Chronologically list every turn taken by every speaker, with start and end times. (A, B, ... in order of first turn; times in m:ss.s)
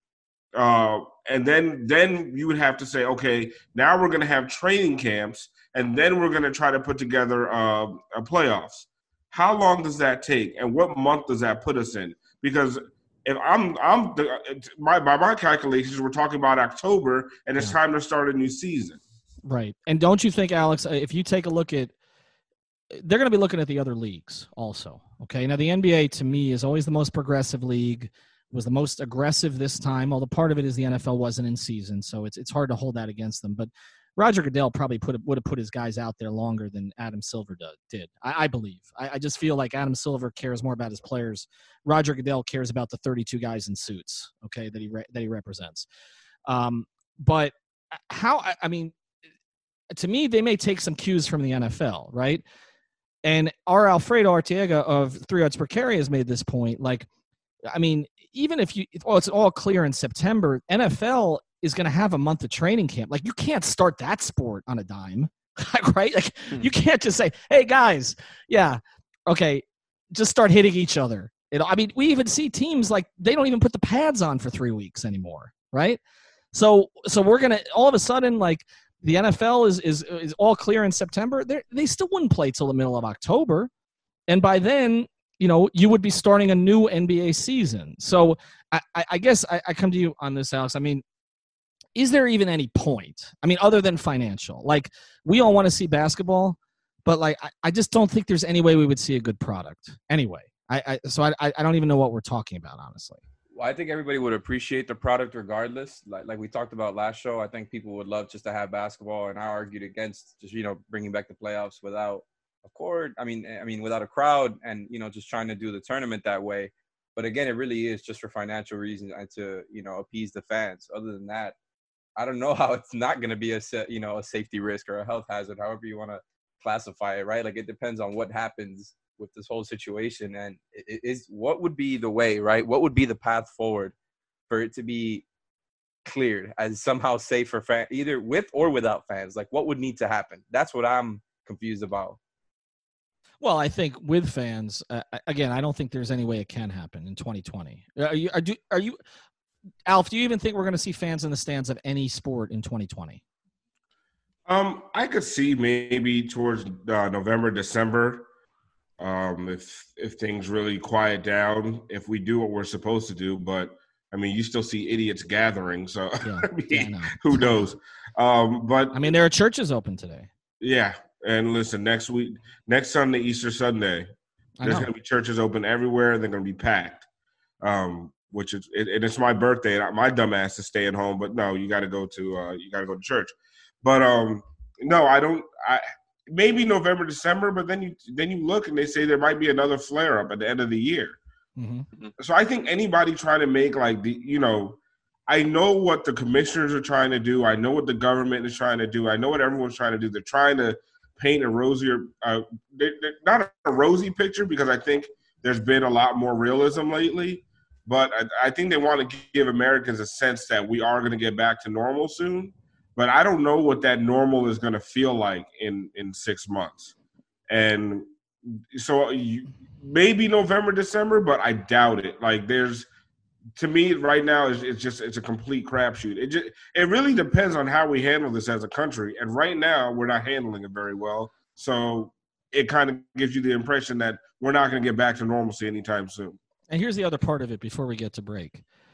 0:00.5-0:19.0 A
0:19.4-0:21.9 B
0:22.9-0:45.9 B
0:46.5-0:48.9 B
0:49.9-0:52.4 B
0:53.2-0:57.1 B
0:57.7-1:16.0 B
1:16.5-1:23.7 B
1:24.3-1:31.0 B
1:32.0-1:43.2 B
1:43.5-2:01.5 C
2:02.2-2:13.9 C
2:14.5-2:15.2 C
2:16.0-2:22.2 C
2:23.4-2:29.0 B
2:29.8-2:33.2 B
2:34.5-2:38.2 A
2:39.0-2:49.1 A
2:46.2-2:47.7 B
2:48.9-2:50.3 B
2:50.6-2:54.1 A
2:54.6-2:54.9 B
2:54.6-2:57.0 A
2:57.6-3:11.2 A
3:11.6-3:11.8 B
3:12.2-3:36.9 A
3:37.5-3:42.9 A
3:43.6-3:56.4 A
3:56.7-3:58.6 B